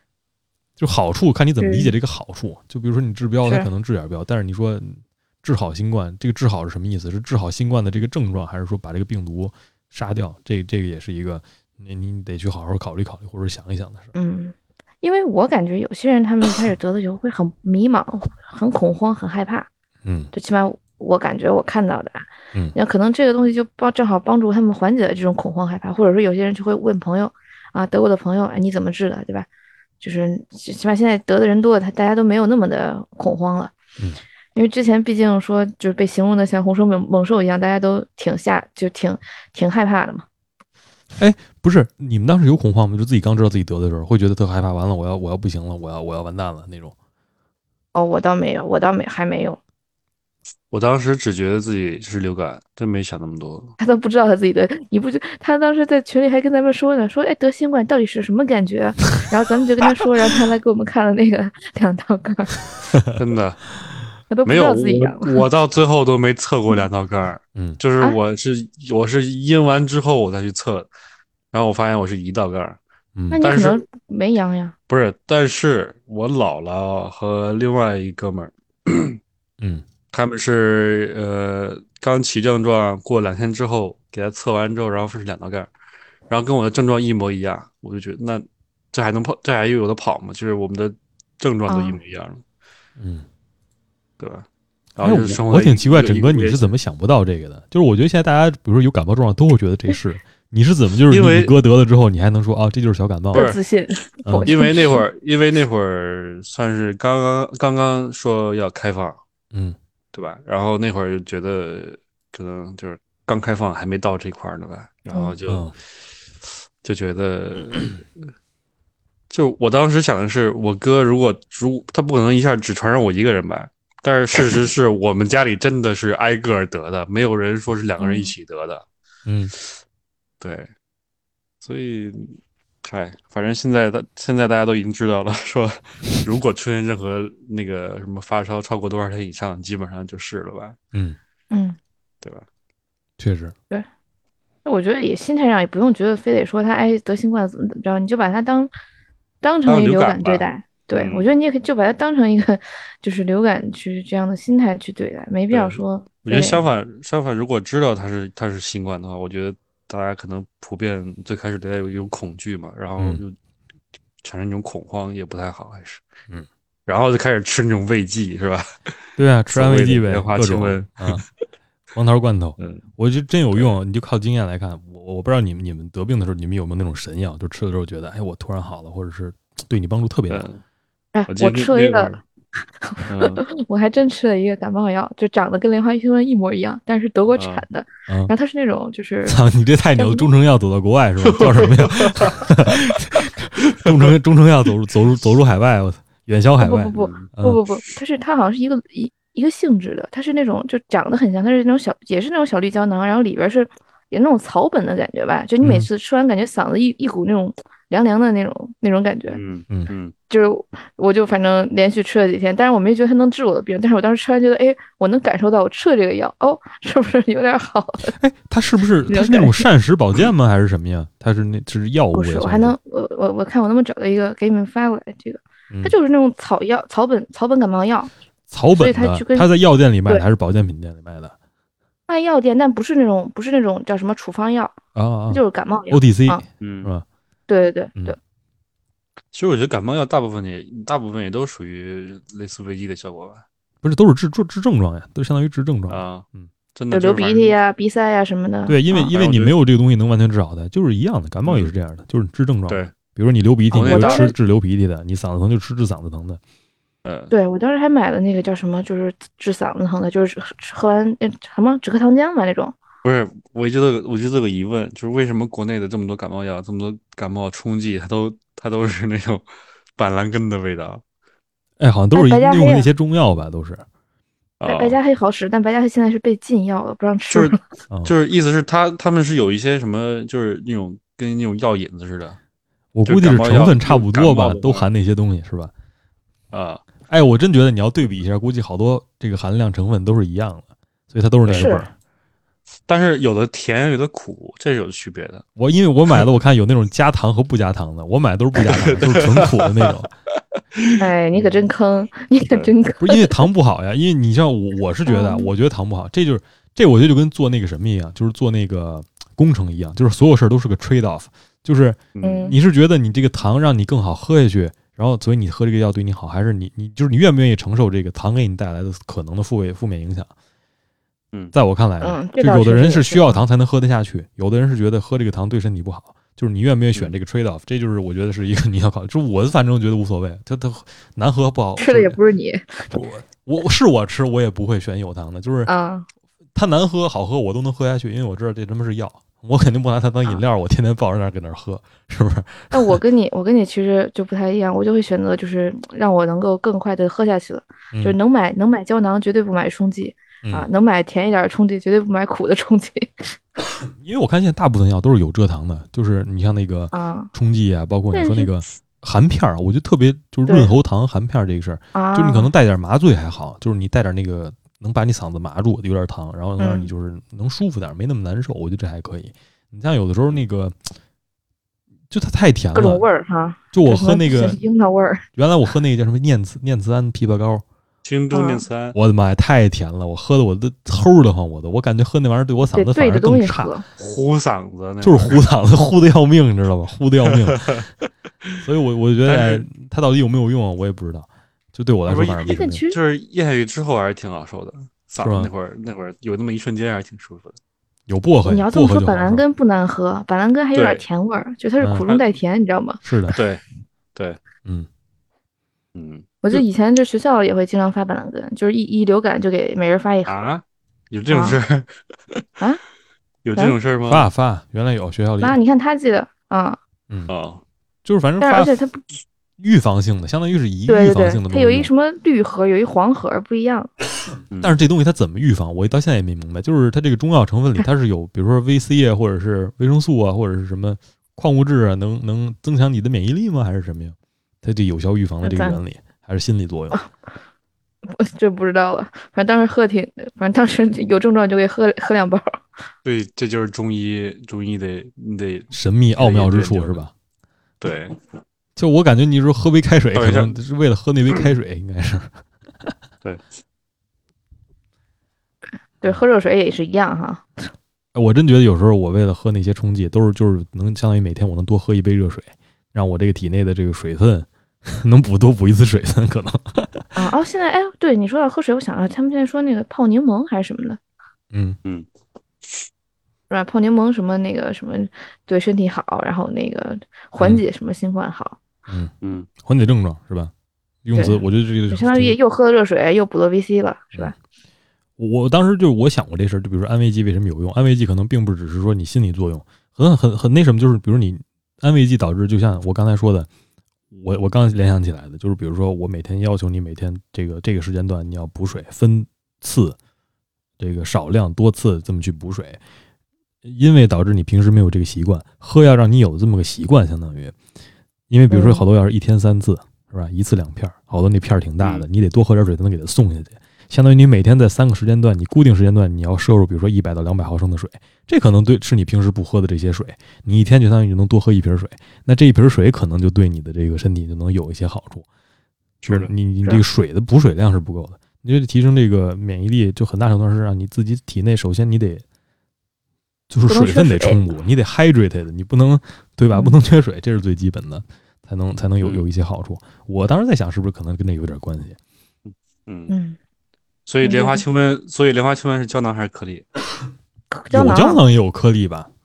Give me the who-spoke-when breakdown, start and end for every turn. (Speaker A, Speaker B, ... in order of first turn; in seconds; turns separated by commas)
Speaker A: 0.8-14.1, Speaker B: 1.6-1.9, Speaker B: 14.1-19.7, Speaker A: 20.0-20.3, Speaker B: 20.3-29.5, Speaker B: 30.0-33.7, Speaker B: 34.5-40.2, Speaker A: 41.2-46.9, Speaker B: 47.9-49.6, Speaker C: 50.7-53.7, Speaker B: 53.8-62.6, Speaker C: 63.1-63.6, Speaker B: 64.3-65.4, Speaker C: 64.4-70.9, Speaker C: 71.5-72.8, Speaker B: 73.3-74.7, Speaker C: 73.4-73.8, Speaker C: 74.9-79.2, Speaker C: 80.1-85.7, Speaker C: 86.3-92.4, Speaker B: 91.7-92.0, Speaker A: 93.0-93.2, Speaker C: 94.2-96.7, Speaker A: 95.0-103.5, Speaker C: 101.1-101.5, Speaker B: 103.3-105.0, Speaker C: 103.3-103.6, Speaker A: 104.2-104.5, Speaker C: 104.4-109.2, Speaker C: 110.1-115.7, Speaker A: 115.5-115.7, Speaker C: 116.8-118.0, Speaker C: 119.3-128.8, Speaker B: 128.0-128.3, Speaker A: 129.2-129.5, Speaker C: 130.4-130.7, Speaker C: 131.6-140.8, Speaker A: 140.9-141.2, Speaker B: 141.5-141.8, Speaker A: 143.2-143.5, Speaker B: 144.6-148.7, Speaker B: 149.4-156.6, Speaker C: 149.7-151.3, Speaker C: 155.5-163.3, Speaker C: 164.2-166.0, Speaker C: 166.9-168.7, Speaker A: 169.2-171.2, Speaker C: 169.5-171.2, Speaker A: 171.9-180.4, Speaker C: 172.6-172.8, Speaker C: 180.3-180.6, Speaker B: 181.1-182.1, Speaker C: 181.3-182.2, Speaker B: 182.8-189.4, Speaker C: 183.1-183.4, Speaker C: 187.3-187.6, Speaker A: 189.3-197.6, Speaker B: 190.0-190.3, Speaker C: 191.2-192.4, Speaker C: 193.8-194.1, Speaker B: 196.6-209.4, Speaker C: 196.9-197.3, Speaker A: 205.6-205.9, Speaker C: 209.3-210.1, Speaker B: 210.3-218.1, Speaker A: 218.1-222.7, Speaker B: 219.1-219.7, Speaker B: 222.1-228.1, Speaker A: 225.7-225.9, Speaker A: 228.5-231.3, Speaker B: 228.8-229.5, Speaker B: 232.1-234.8, Speaker A: 234.9-237.0, Speaker B: 235.3-236.4, Speaker C: 236.6-236.9, Speaker B: 237.5-238.2, Speaker C: 239.3-243.4, Speaker A: 243.8-246.5, Speaker C: 245.9-247.6, Speaker B: 246.9-249.1, Speaker A: 248.7-256.4, Speaker C: 249.1-249.5, Speaker C: 251.4-251.7, Speaker C: 252.7-252.9, Speaker C: 253.7-254.3, Speaker B: 253.8-254.3, Speaker C: 257.0-257.3, Speaker B: 257.3-262.7, Speaker C: 263.0-269.4, Speaker C: 270.0-271.0, Speaker A: 271.8-273.8, Speaker B: 272.1-272.9, Speaker C: 274.6-275.0, Speaker B: 274.6-277.6, Speaker C: 277.3-282.4, Speaker A: 282.9-285.7, Speaker C: 283.1-284.9, Speaker C: 286.5-286.8, Speaker A: 287.1-291.9, Speaker B: 291.6-291.9, Speaker C: 292.9-295.4, Speaker A: 295.6-300.1, Speaker C: 298.6-299.9, Speaker C: 300.7-301.6, Speaker B: 301.0-303.4, Speaker A: 303.0-320.3, Speaker B: 305.1-305.5, Speaker C: 312.1-312.5, Speaker B: 312.2-312.5, Speaker A: 321.5-332.2, Speaker B: 322.0-323.4, Speaker B: 331.8-332.9, Speaker A: 332.9-335.7, Speaker B: 335.6-336.1, Speaker A: 336.5-343.0, Speaker B: 342.7-353.4, Speaker A: 350.4-350.7, Speaker A: 354.0-370.8, Speaker B: 356.9-357.3, Speaker B: 358.1-358.6, Speaker B: 360.4-360.7, Speaker B: 361.9-362.5, Speaker B: 366.6-366.9, Speaker A: 372.1-373.1, Speaker B: 372.7-375.2, Speaker A: 373.7-374.6, Speaker A: 375.3-377.6, Speaker C: 378.0-378.9, Speaker B: 378.3-378.6, Speaker A: 378.9-383.7, Speaker B: 382.7-383.8, Speaker C: 384.0-385.4, Speaker A: 385.0-387.9, Speaker C: 387.3-387.9, Speaker A: 388.6-392.8, Speaker C: 389.2-389.6, Speaker C: 392.1-397.6, Speaker B: 392.4-393.0, Speaker A: 395.2-395.5, Speaker A: 398.1-399.4, Speaker B: 398.4-403.0, Speaker C: 400.7-401.0, Speaker A: 401.8-402.1, Speaker A: 403.0-403.4, Speaker C: 403.3-403.6, Speaker C: 404.1-404.4, Speaker C: 405.9-406.6, Speaker B: 406.4-410.4, Speaker C: 410.2-412.4, Speaker B: 411.3-411.6, Speaker C: 413.4-414.3, Speaker A: 414.1-415.6, Speaker B: 415.4-416.8, Speaker C: 417.3-417.6, Speaker A: 418.0-418.8, Speaker B: 418.4-419.0, Speaker A: 419.6-421.9, Speaker B: 420.9-423.9, Speaker C: 424.5-424.8, Speaker A: 424.6-437.0, Speaker B: 435.4-435.8, Speaker B: 438.1-442.6, Speaker C: 443.0-447.0, Speaker A: 445.7-447.1, Speaker C: 447.8-448.2, Speaker A: 448.8-452.9, Speaker C: 450.1-450.5, Speaker B: 456.0-457.7, Speaker A: 458.1-467.1, Speaker B: 467.1-471.0, Speaker A: 471.5-471.8, Speaker C: 472.6-472.9, Speaker B: 473.5-478.6, Speaker A: 478.9-480.5, Speaker C: 479.2-479.5, Speaker A: 481.0-482.4, Speaker B: 481.1-484.3, Speaker A: 485.2-493.5, Speaker A: 494.1-500.0, Speaker A: 500.8-502.8, Speaker A: 503.6-507.6, Speaker A: 508.3-525.3, Speaker B: 508.5-508.8, Speaker C: 526.0-526.3, Speaker A: 526.1-532.2, Speaker A: 533.5-542.0, Speaker B: 533.7-534.4, Speaker B: 536.5-536.8, Speaker C: 542.5-543.1, Speaker B: 543.1-543.4, Speaker C: 544.0-546.6, Speaker B: 544.2-544.6, Speaker B: 547.5-548.2, Speaker A: 547.7-549.1